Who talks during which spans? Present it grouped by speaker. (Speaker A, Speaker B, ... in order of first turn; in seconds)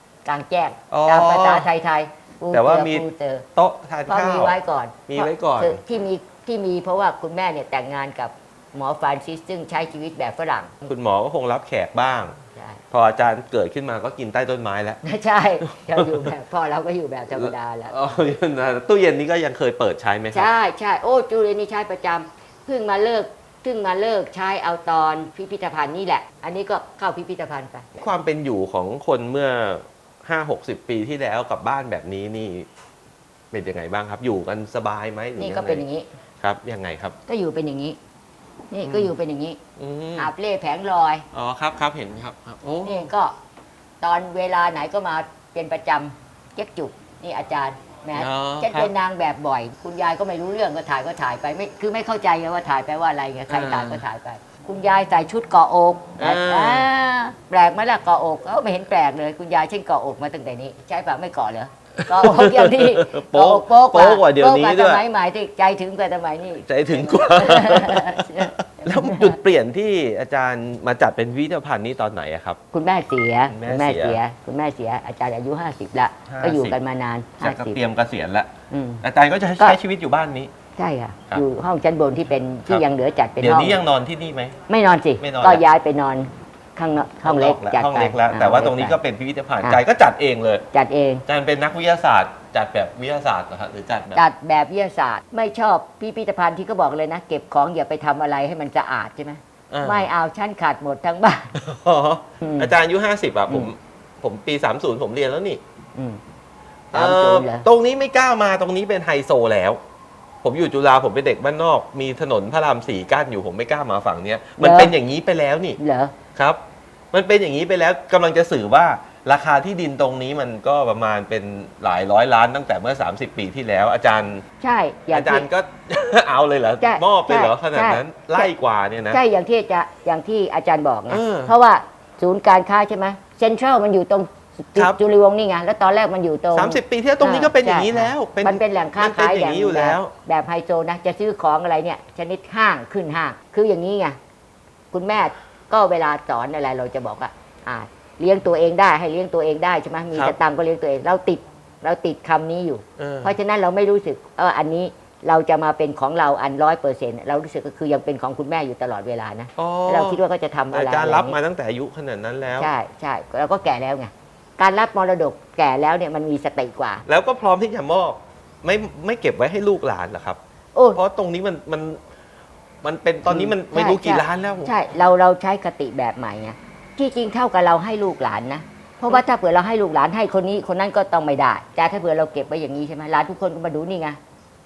Speaker A: 0.2-3.5, 4.1-10.8, 12.5-12.8, 15.0-17.9, 20.3-27.9, 35.4-36.1, 37.3-38.0, 38.7-39.6, 40.2-41.2, 42.8-43.3, 44.0-69.3, 72.7-77.8, 78.7-79.0, 80.8-83.8, 84.7-89.0, 90.7-91.2, 94.1-101.5, 102.4-102.7, 105.9-106.2, 106.9-107.7, 114.6-114.9, 115.8-116.1, 124.6-125.5, 126.8-128.5, 129.1-144.2, 144.9-161.4, 162.6-167.0, 170.7-171.0, 173.3-184.2
Speaker B: 0.9-1.7, 2.5-5.8, 10.8-12.3, 12.9-15.0, 15.9-16.3, 17.3-20.5, 27.9-32.7, 33.5-35.9, 36.4-37.1, 38.8-39.1, 39.8-40.3, 41.3-43.0, 48.1-48.9, 53.5-54.0, 56.2-56.9, 62.1-65.0, 66.6-72.6, 73.5-74.2, 76.3-76.8, 77.4-78.5, 79.0-80.5, 83.4-84.5, 85.2-85.7, 87.2-90.6, 91.2-94.2, 99.7-100.1, 101.5-105.6, 106.9-109.8, 110.4-115.8, 116.3-116.6, 117.1-124.4, 125.1-129.2, 131.1-131.5, 136.5-140.1, 153.0-153.3, 159.6-162.7, 167.1-170.4, 170.9-172.0, 172.8-174.7